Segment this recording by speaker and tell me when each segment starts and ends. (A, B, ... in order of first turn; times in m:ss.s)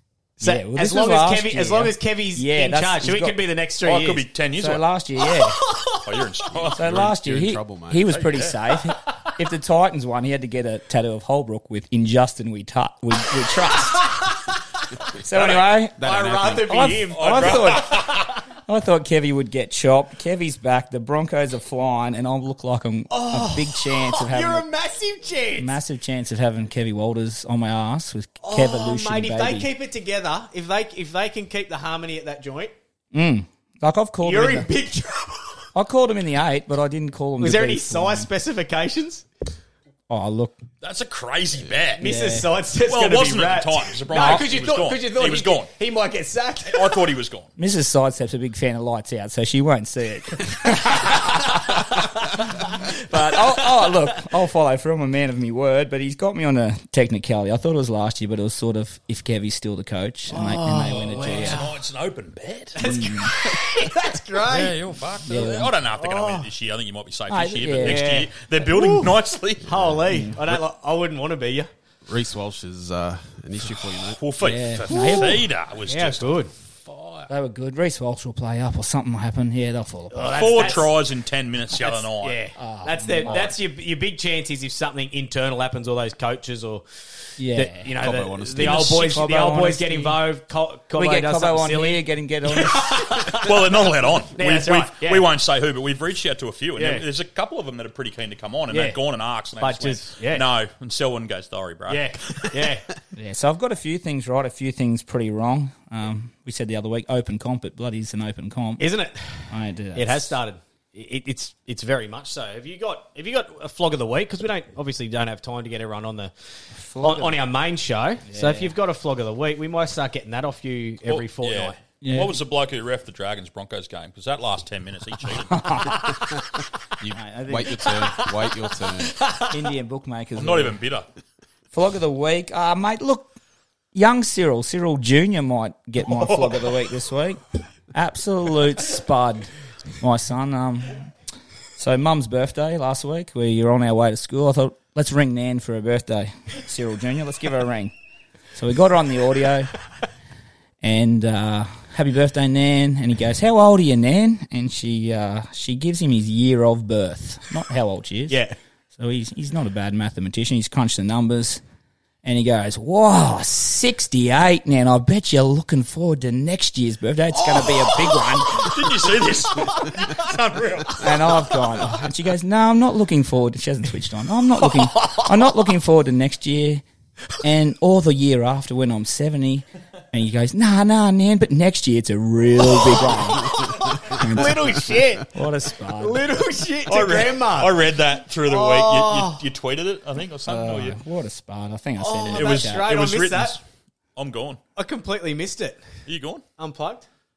0:00.4-0:03.4 A
0:00.4-0:04.2 B
0:03.8-0:04.8 C
0:04.6-0:05.6 A
0:05.6-0:06.0 B
0:06.0-0:06.8 C
0:06.6-0:08.0 D
0:06.8-0:14.2 A
0:08.1-0:08.6 C
0:15.2-0:16.0 A
0:15.4-0:18.2 B
0:16.0-0:16.8 D
0:16.6-0:18.1 A
0:17.1-0:18.3 C
0:18.7-0:24.7 A
0:23.1-0:25.8 B
0:25.6-0:29.7 A
0:28.4-0:32.7 B
0:33.1-0:34.7 A
0:34.2-0:35.6 B
0:35.7-0:38.3 A
0:37.4-0:39.2 B
0:40.1-0:40.6 A
0:40.8-0:42.0 C
0:42.0-0:47.0 B
0:42.0-0:42.5 A
0:42.8-0:45.7 C
0:44.2-0:44.4 A
0:46.7-0:47.5 C
0:47.6-1:01.6 A
1:00.3-1:01.7 B
1:01.1-1:02.9 C
1:02.8-1:04.8 B
1:02.8-1:03.3 A
1:04.4-1:09.7 C
1:05.2-1:05.7 A
1:06.0-1:06.5 B
1:07.3-1:08.1 A
1:07.8-1:11.7 B
1:10.1-1:10.4 A
1:12.0-1:14.2 D
1:14.2-1:17.3 C
1:14.4-1:15.4 A
1:14.9-1:15.4 B
1:15.9-1:16.5 B
1:17.3-1:20.7 A
1:20.1-1:20.9 B
1:20.3-1:22.4 C
1:21.8-1:26.8 B
1:22.6-1:23.5 A
1:27.4-1:27.9 A
1:27.5-1:33.6 B
1:28.0-1:29.0 D
1:28.6-1:30.2 A
1:30.9-1:33.1 A
1:33.3-1:42.6 C
1:34.3-1:35.3 B
1:36.8-1:37.0 B
1:38.7-1:39.0 B
1:39.6-1:40.4 B
1:41.9-1:42.8 B
1:43.1-1:48.8 A
1:48.8-1:56.3 B
1:49.5-1:50.4 A
1:56.7-1:57.5 A
1:57.0-2:01.8 B
1:58.2-1:58.7 A
2:01.0-2:05.9 C
2:02.0-2:02.4 A
2:05.5-2:06.2 A
2:07.0-2:09.2 D
2:07.1-2:08.0 A
2:09.5-2:10.8 A
2:10.3-2:11.1 C
2:11.7-2:13.3 A
2:13.9-2:17.4 A
2:16.1-2:16.7 C
2:17.9-2:21.1 A
2:21.8-2:27.9 A
2:28.5-2:29.7 A
2:30.8-2:38.4 A
2:38.3-2:38.6 B
2:38.9-2:41.6 A
2:42.2-2:48.8 A
2:48.5-2:51.2 C
2:51.0-2:56.8 A
2:57.4-3:06.4 A
3:03.6-3:05.3 B
3:05.9-3:07.7 B
3:06.9-3:11.0 C
3:08.4-3:09.4 B
3:10.4-3:12.9 A
3:12.0-3:13.6 B
3:12.3-3:13.6 C
3:14.2-3:14.6 C
3:14.8-3:15.8 B
3:16.1-3:16.4 C
3:16.6-3:17.0 B